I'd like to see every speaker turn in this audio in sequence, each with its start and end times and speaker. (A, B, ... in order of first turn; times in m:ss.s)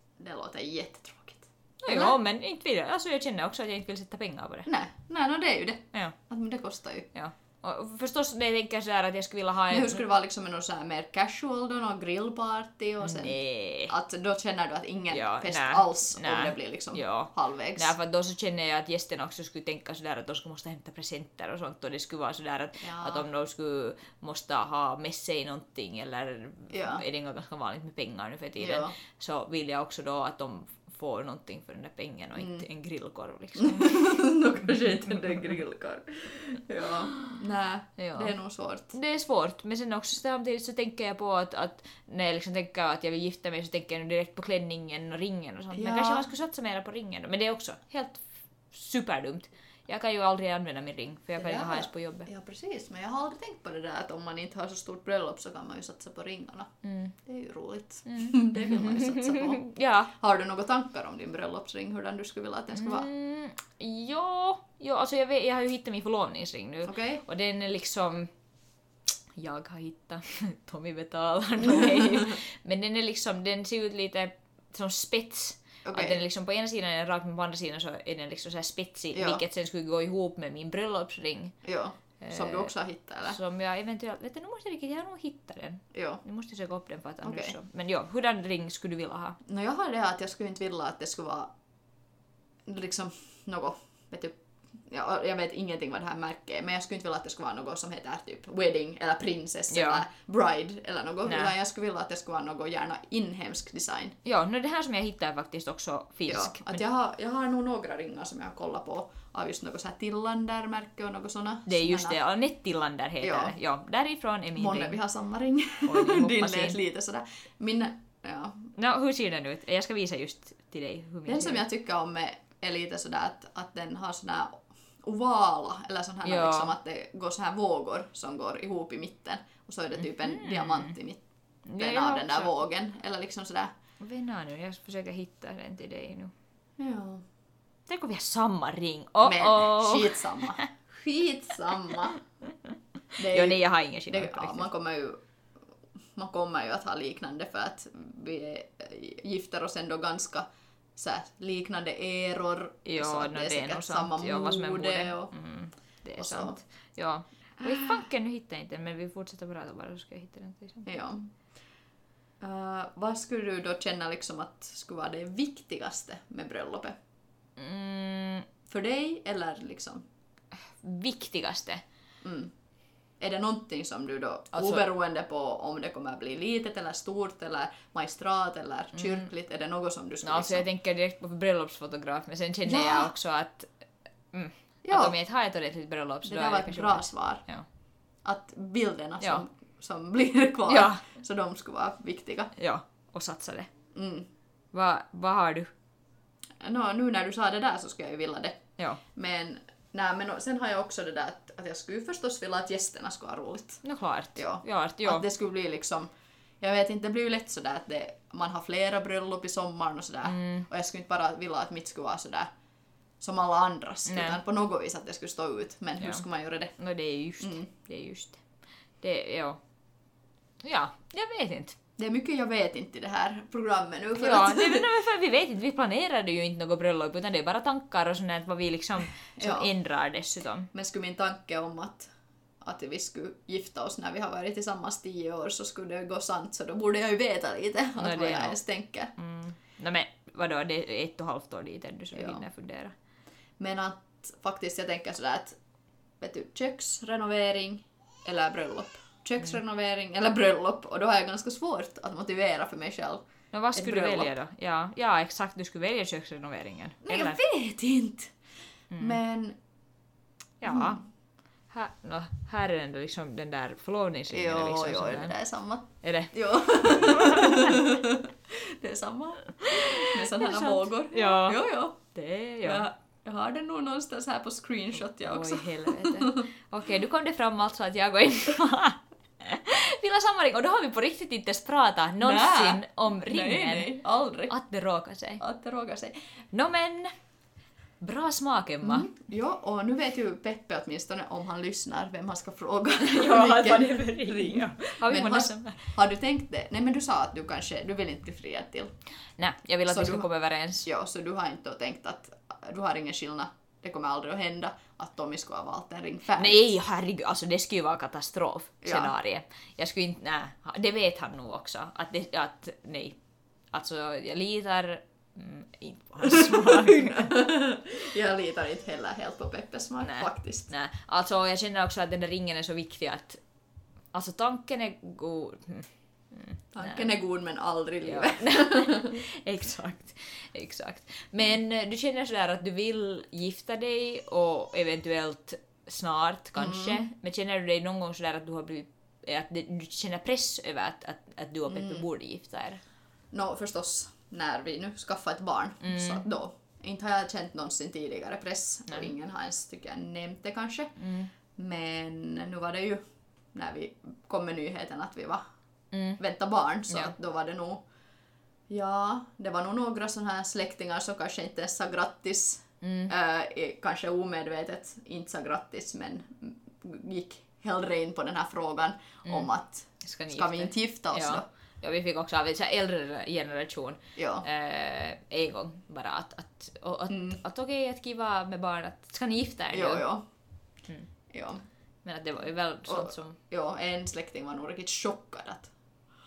0:00.2-0:02.2 A
0:01.8-0:04.7 B
0:04.7-0:07.1 A
0:07.1-0:10.0 B
0:09.7-0:17.9 A
0:13.0-0:13.9 B
0:15.1-0:34.3 B
0:22.8-0:23.3 A
0:26.7-0:27.0 A
0:28.6-0:29.0 A
0:32.4-0:32.7 A
0:33.6-0:38.9 A
0:38.0-0:38.3 B
0:38.9-0:52.3 B
0:45.7-0:46.3 A
0:51.4-0:56.7 A
0:56.8-0:57.2 B
0:57.2-1:03.1 A
0:58.0-1:00.1 B
1:02.7-1:08.3 B
1:06.8-1:07.2 A
1:09.4-1:21.6 B
1:11.7-1:12.3 A
1:15.8-1:16.2 A
1:19.1-1:19.4 A
1:21.6-1:23.4 A
1:22.2-1:22.7 B
1:23.2-1:29.4 B
1:25.9-1:26.2 A
1:27.2-1:27.6 A
1:29.5-1:31.5 A
1:32.7-1:44.2 A
1:39.7-1:40.0 B
1:41.3-1:41.5 B
1:44.2-1:46.8 B
1:46.3-1:52.2 A
1:51.7-1:55.0 B
1:53.2-1:53.6 A
1:54.6-1:58.7 A
1:55.8-1:56.8 B
1:58.8-2:01.6 B
2:01.3-2:11.2 A
2:06.2-2:06.8 B
2:10.0-2:11.0 B
2:11.7-2:12.5 B
2:11.8-2:13.7 A
2:14.0-2:16.3 B
2:16.8-2:17.2 A
2:17.9-2:20.7 B
2:19.2-2:22.2 A
2:23.2-2:25.2 A
2:23.2-2:24.7 B
2:26.2-2:35.3 A
2:32.8-2:40.9 B
2:36.2-2:36.6 A
2:37.6-2:38.0 A
2:40.9-2:41.3 A
2:42.4-2:47.0 A
2:47.6-2:48.5 B
2:48.7-2:50.1 A
2:50.8-2:51.8 B
2:52.2-2:52.5 A
2:53.2-3:00.7 A
2:54.5-2:54.9 B
2:59.0-2:59.3 B
3:00.2-3:03.7 B
3:02.7-3:03.1 A
3:04.3-3:07.6 B
3:04.8-3:05.2 A
3:06.2-3:07.4 A
3:08.2-3:12.5 A
3:10.7-3:11.0 B
3:12.6-3:13.7 B
3:13.9-3:14.3 A
3:14.7-3:15.7 B
3:16.6-3:23.8 A
3:23.8-3:25.3 B
3:24.4-3:32.5 A
3:30.3-3:30.7 B
3:33.2-3:36.8 A
3:34.1-3:34.4 B
3:36.0-3:36.2 B
3:36.8-3:38.4 B
3:37.4-3:37.7 A
3:39.0-3:39.6 B
3:40.6-3:41.8 B
3:42.0-3:44.9 A
3:44.2-3:50.7 B
3:49.4-3:49.7 A
3:50.7-3:52.1 A
3:52.6-3:59.1 A
3:58.0-3:58.6 B
3:59.2-4:02.9 B
4:02.2-4:02.4 A
4:03.6-4:05.6 A
4:06.2-4:14.3 A
4:13.5-4:17.4 B
4:17.1-4:18.4 A
4:18.9-4:19.2 B
4:19.0-4:19.6 A
4:20.6-4:21.0 B
4:20.7-4:21.0 A
4:21.7-4:25.4 B
4:24.3-4:32.0 A
4:26.0-4:27.8 B
4:29.6-4:32.9 B
4:32.6-4:36.5 A
4:35.2-4:45.4 B
4:42.2-4:44.5 A
4:45.4-4:46.1 A
4:46.5-4:47.1 B
4:48.0-4:49.1 B
4:48.8-4:58.9 A
4:53.0-4:55.9 B
4:59.4-5:00.9 B
4:59.9-5:00.3 A
5:00.8-5:06.6 A
5:06.4-5:13.2 B
5:08.8-5:09.1 A
5:13.7-5:17.4 B
5:16.2-5:20.7 A
5:20.0-5:23.4 B
5:24.1-5:27.1 B
5:26.7-5:29.2 A
5:28.0-5:42.8 B
5:36.6-5:37.0 A
5:41.7-5:42.0 A
5:43.3-5:51.0 A
5:45.8-5:46.2 B
5:51.0-5:51.3 B
5:51.6-5:55.4 A
5:55.9-5:56.2 B
5:56.2-5:57.8 A
5:58.7-6:11.5 A
6:02.8-6:03.1 B
6:10.0-6:20.1 B
6:14.2-6:14.4 A
6:17.1-6:17.4 A
6:19.7-6:20.2 A
6:21.3-6:21.6 A
6:22.0-6:23.4 B
6:22.9-6:25.7 A